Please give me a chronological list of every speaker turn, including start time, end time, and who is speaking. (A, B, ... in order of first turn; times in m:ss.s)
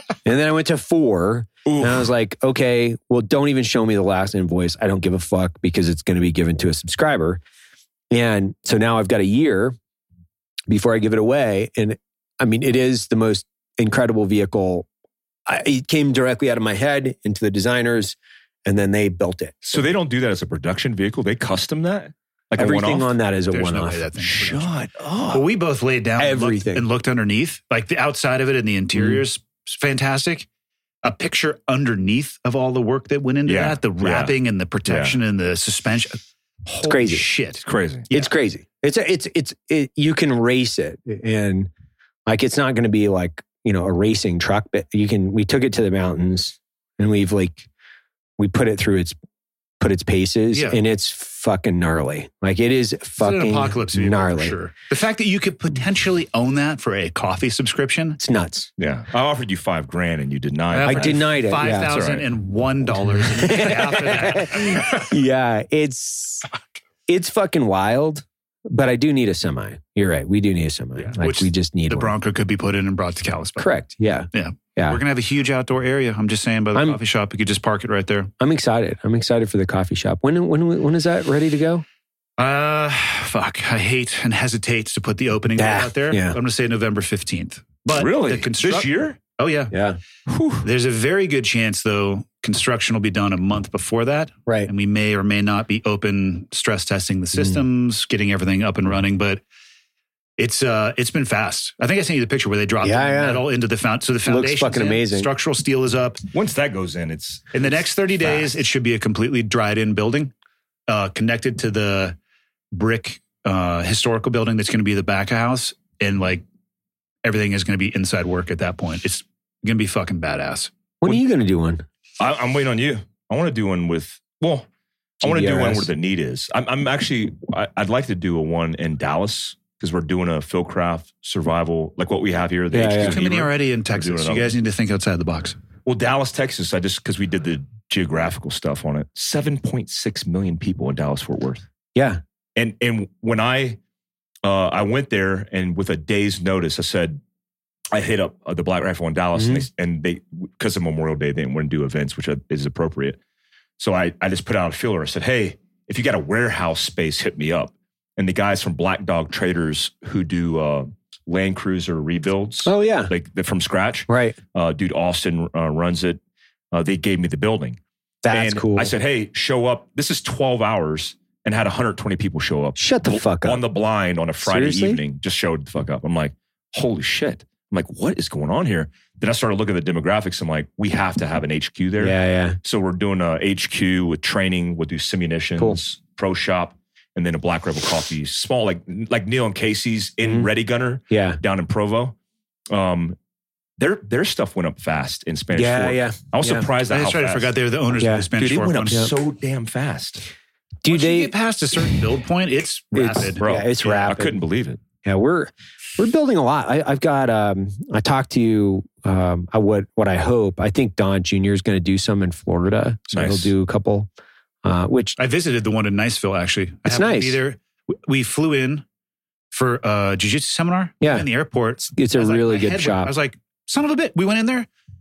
0:00.2-0:07.4 A
0:01.6-0:02.1 B
0:08.1-0:09.8 A
0:10.7-0:14.9 A
0:15.4-0:19.9 A
0:19.6-0:23.1 B
0:22.6-0:24.0 A
0:23.5-0:24.7 C
0:24.2-0:25.4 B
0:25.3-0:30.5 C
0:26.2-0:26.8 A
0:28.9-0:29.2 A
0:31.0-0:38.3 C
0:33.4-0:34.3 B
0:34.8-0:35.2 B
0:36.8-0:37.2 A
0:37.6-0:38.1 B
0:38.1-0:41.7 A
0:42.2-0:47.7 A
0:48.4-0:49.1 A
0:49.8-0:54.5 A
0:50.5-0:50.8 C
0:53.2-0:58.2 C
0:58.2-0:58.7 A
0:58.8-1:02.3 B
1:00.7-1:05.1 C
1:00.8-1:01.9 A
1:03.3-1:06.5 A
1:07.1-1:12.1 A
1:11.2-1:13.7 C
1:13.6-1:15.0 A
1:14.3-1:18.3 C
1:18.4-1:21.8 A
1:22.4-1:29.7 C
1:25.6-1:26.4 A
1:27.9-1:29.2 B
1:29.7-1:30.0 A
1:30.3-1:30.6 B
1:30.6-1:39.4 C
1:40.4-1:46.2 C
1:42.8-1:43.4 A
1:44.2-1:45.3 A
1:46.3-1:47.7 B
1:47.5-1:50.3 C
1:50.9-1:52.2 C
1:52.7-1:56.4 C
1:57.2-2:00.7 C
2:01.0-2:01.8 A
2:02.2-2:04.7 B
2:05.2-2:14.5 B
2:05.2-2:05.9 A
2:12.7-2:13.2 A
2:13.0-2:15.6 C
2:15.8-2:21.6 B
2:21.9-2:22.2 A
2:22.6-2:23.8 B
2:24.4-2:27.2 B
2:27.9-2:33.2 B
2:29.3-2:29.6 A
2:33.8-2:46.2 B
2:42.6-2:43.1 A
2:44.1-2:44.4 A
2:46.7-2:47.8 B
2:48.2-2:48.9 A
2:48.3-3:12.2 B
2:52.8-2:53.6 A
2:54.4-2:55.0 A
3:02.0-3:02.6 A
3:10.2-3:10.5 A
3:11.1-3:11.4 A
3:12.7-3:13.2 B
3:13.8-3:17.5 B
3:15.5-3:16.7 A
3:16.9-3:19.1 C
3:18.0-3:18.3 A
3:18.4-3:20.2 B
3:20.8-3:21.3 A
3:20.9-3:24.1 C
3:22.9-3:24.4 A
3:23.4-3:24.8 B
3:25.0-3:34.1 A
3:33.1-3:33.5 B
3:34.6-3:35.2 A
3:35.2-3:38.8 C
3:36.8-3:37.4 A
3:39.5-3:44.7 C
3:41.0-3:41.2 A
3:41.9-3:43.1 A